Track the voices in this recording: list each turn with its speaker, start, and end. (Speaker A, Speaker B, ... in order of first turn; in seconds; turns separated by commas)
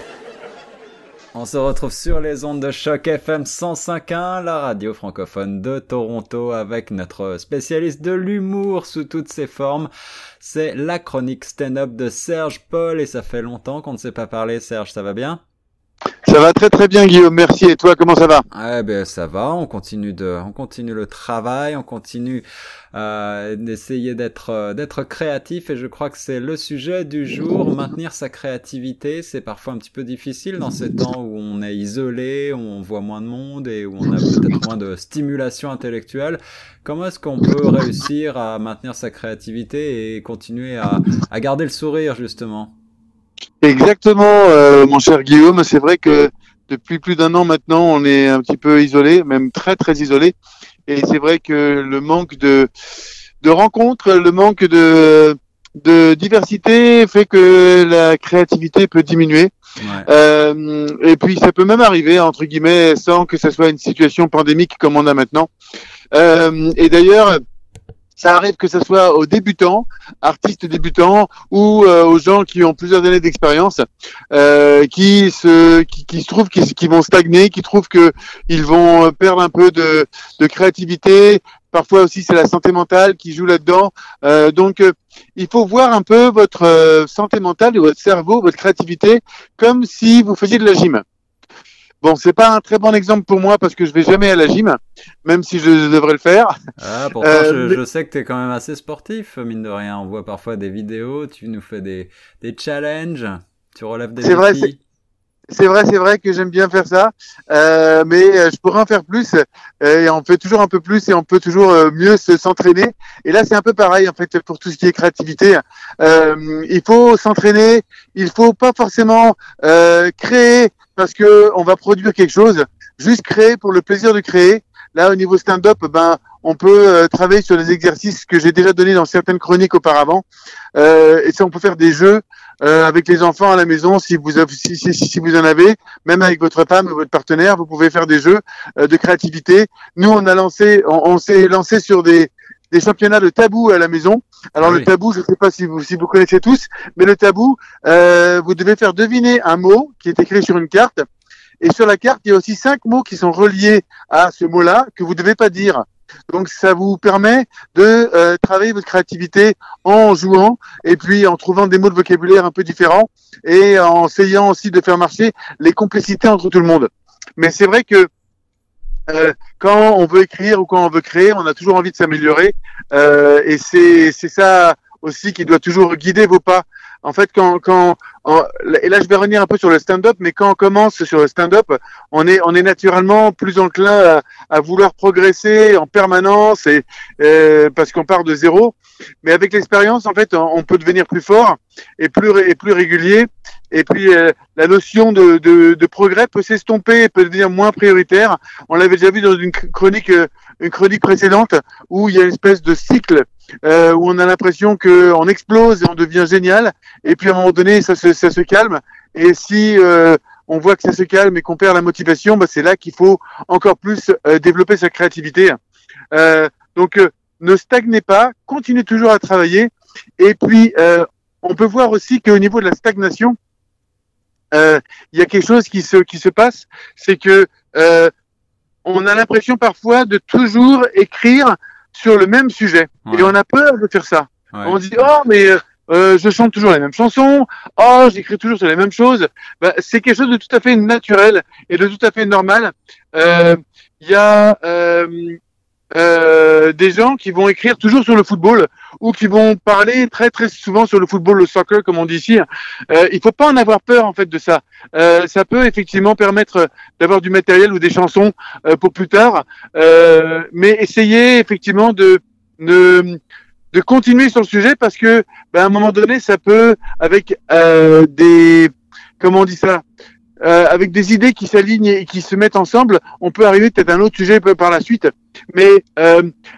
Speaker A: 1.3-9.9, Speaker A: 10.4-15.4, Speaker B: 16.2-18.4, Speaker A: 18.5-42.7, Speaker B: 43.6-50.3, Speaker B: 50.9-52.7, Speaker B: 53.4-59.5, Speaker A: 59.8-60.1, Speaker B: 60.0-65.5, Speaker B: 66.1-67.4, Speaker B: 68.2-91.0, Speaker B: 92.0-96.5, Speaker A: 96.8-104.8, Speaker B: 97.2-97.8, Speaker B: 104.2-104.7, Speaker B: 105.5-130.2, Speaker B: 130.7-151.0, Speaker A: 144.6-144.9, Speaker B: 151.6-168.1, Speaker B: 169.1-215.6, Speaker B: 216.1-223.3, Speaker B: 224.5-228.1, Speaker B: 228.8-245.4, Speaker A: 233.1-233.3, Speaker A: 234.5-234.9, Speaker B: 245.9-263.2, Speaker B: 263.7-269.8, Speaker B: 270.4-276.3